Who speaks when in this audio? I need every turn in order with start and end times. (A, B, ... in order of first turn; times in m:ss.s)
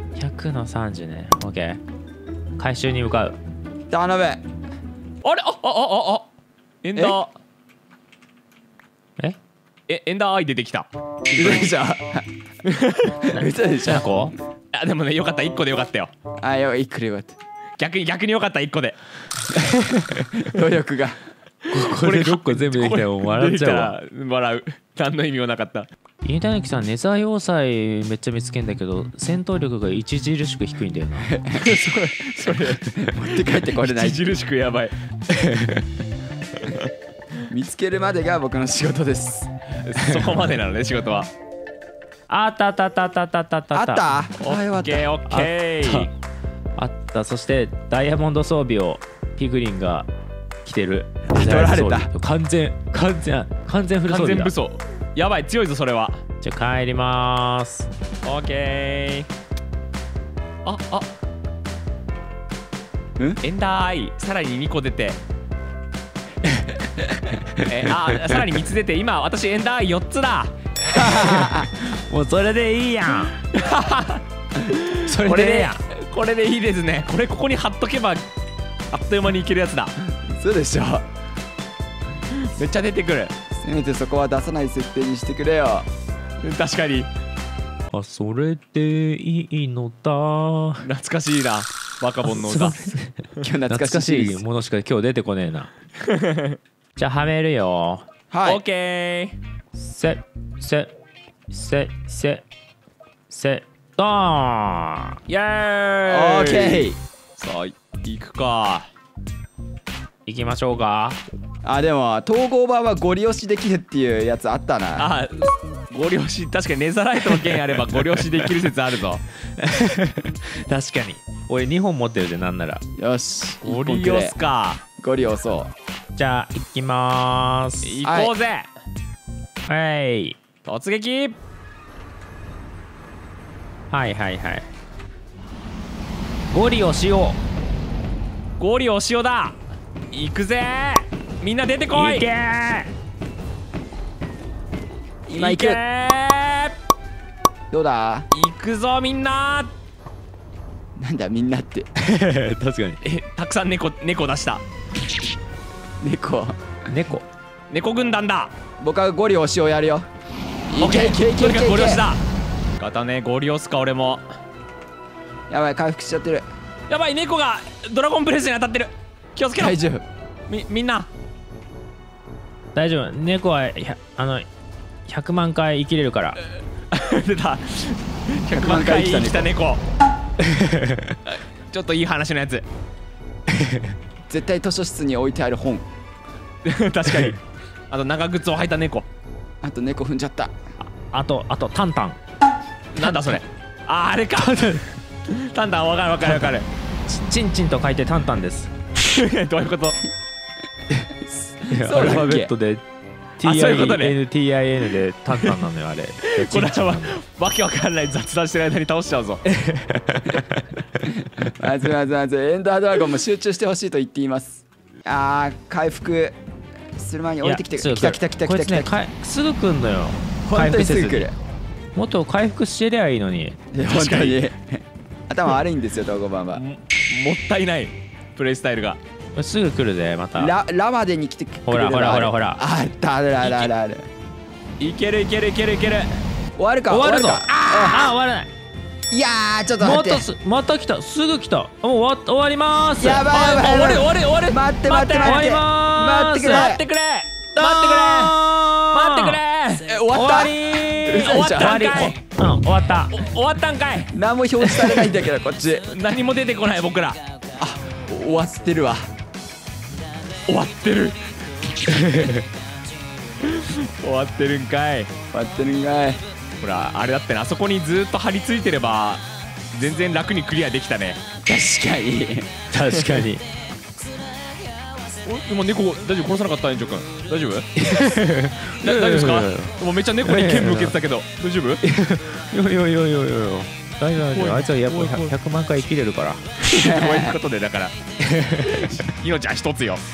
0:00.2-0:01.8 A
0:02.6-0:03.4 A
0:03.9-0:04.4 B
0:05.2-0:06.3 C
0:06.8-0:07.3 C
0:09.9-0:11.7 C
0:11.3-0:12.2 B
0:12.6-0:13.2 C
0:13.3-0:14.1 B
0:13.4-0:14.3 A
0:14.7-0:16.1 C
0:16.4-0:17.4 B
0:17.8-0:19.0 C
0:20.2-0:21.2 B
0:21.7-0:24.0 A
0:21.7-0:25.9 C
0:26.2-0:31.3 A
0:31.5-0:32.9 C
0:32.9-0:34.2 B
0:33.7-0:35.0 C
0:35.4-0:35.8 A
0:37.5-0:39.5 B
0:39.8-0:41.3 C
0:42.3-0:44.1 A
0:43.7-0:45.1 B
0:44.4-0:46.1 C
0:45.3-0:46.1 A
0:46.8-0:50.1 A
0:50.6-0:54.5 A
0:51.3-0:52.1 B
0:54.1-0:56.2 C
0:56.4-0:57.9 A
0:58.2-0:59.3 C
1:00.6-1:01.1 C
1:03.4-1:05.2 C
1:07.6-1:10.5 C
1:10.9-1:11.7 B
1:11.0-1:13.4 A
1:13.5-1:18.2 C
1:15.0-1:15.8 A
1:18.9-1:19.9 C
1:20.4-1:21.1 B
1:22.5-1:23.4 C
1:23.5-1:25.9 B
1:26.4-1:27.1 C
1:27.9-1:30.8 A
1:30.8-1:33.4 C
1:32.2-1:33.1 A
1:33.4-1:34.4 B
1:33.7-1:35.7 A
1:36.1-1:36.6 C
1:37.0-1:38.0 A
1:38.3-1:38.6 B
1:38.4-1:39.4 C
1:39.8-1:40.9 A
1:41.5-1:42.4 A
1:43.3-1:45.2 A
1:45.3-1:48.9 C
1:46.1-1:47.0 B
1:50.2-1:51.2 A
1:51.6-1:55.1 B
1:55.0-1:59.2 C
1:59.6-2:02.8 A
2:03.0-2:04.4 B
2:03.6-2:04.8 C
2:05.0-2:05.7 B
2:06.2-2:08.0 A
2:07.8-2:08.7 C
2:08.0-2:08.3 B
2:09.7-2:10.4 A
2:10.6-2:11.4 C
2:13.9-2:14.6 A
2:16.5-2:17.4 A
2:18.6-2:19.6 C
2:20.1-2:22.2 C
2:21.9-2:22.9 A
2:25.3-2:25.8 B
2:25.4-2:26.7 C
2:27.7-2:28.3 B
2:28.3-2:29.7 C
2:31.0-2:31.9 B
2:32.0-2:33.0 A
2:33.0-2:34.6 C
2:36.0-2:36.6 B
2:36.9-2:37.2 A
2:37.7-2:38.5 C
2:38.8-2:40.0 B
2:40.7-2:42.0 B
2:40.8-2:42.2 C
2:42.8-2:44.2 C
2:45.5-2:46.4 B
2:46.9-2:49.8 C
2:49.6-2:50.0 B
2:50.5-2:51.1 C
2:52.8-2:54.5 A
2:55.1-2:56.4 A
2:56.9-2:59.8 C
2:58.5-2:59.5 B
3:00.4-3:01.1 A
3:01.2-3:02.6 C
3:04.3-3:05.8 B
3:06.6-3:07.4 C
3:07.9-3:09.0 C
3:09.6-3:10.5 B
3:11.1-3:12.2 A
3:13.0-3:14.6 C
3:14.4-3:14.9 A
3:15.3-3:16.7 C
3:17.1-3:18.7 A
3:19.1-3:20.0 C
3:21.4-3:22.5 B
3:21.7-3:22.8 A
3:23.4-3:27.1 A
3:23.4-3:24.2 C
3:26.4-3:29.4 C
3:29.5-3:30.8 A
3:31.4-3:36.4 B
3:37.0-3:38.9 B
3:37.4-3:41.3 A
3:40.5-3:41.4 B
3:42.0-3:43.6 A
3:43.7-3:46.6 B
3:43.9-3:44.4 C
3:46.5-3:49.0 C
3:49.4-3:50.5 A
3:50.4-3:54.1 B
3:51.6-3:52.6 A
3:53.4-3:53.7 C
3:54.8-3:56.1 C
3:56.6-3:58.1 B
3:56.9-3:58.5 A
3:59.1-4:00.2 B
3:59.8-4:03.2 A
4:03.0-4:06.8 B
4:03.3-4:05.5 C
4:05.2-4:06.7 A
4:06.5-4:08.4 C
4:07.6-4:09.4 A
4:08.9-4:12.2 C
4:09.9-4:12.1 B
4:10.1-4:10.5 A
4:11.2-4:13.1 A
4:13.1-4:14.1 C
4:14.1-4:15.8 B
4:14.6-4:15.1 C
4:15.9-4:17.2 C
4:17.6-4:19.0 B
4:20.5-4:21.2 C
4:21.9-4:22.4 A
4:23.4-4:25.1 C
4:25.3-4:26.2 B
4:26.6-4:31.2 C
4:31.5-4:33.0 B
4:32.7-4:33.4 A
4:35.2-4:37.7 C
4:37.8-4:39.7 A
4:38.8-4:41.8 C
4:40.2-4:41.0 A
4:41.8-4:46.4 A
4:44.3-4:45.4 C
4:46.6-4:48.0 C
4:46.8-4:47.4 B
4:48.3-4:48.9 A
4:48.6-4:50.0 C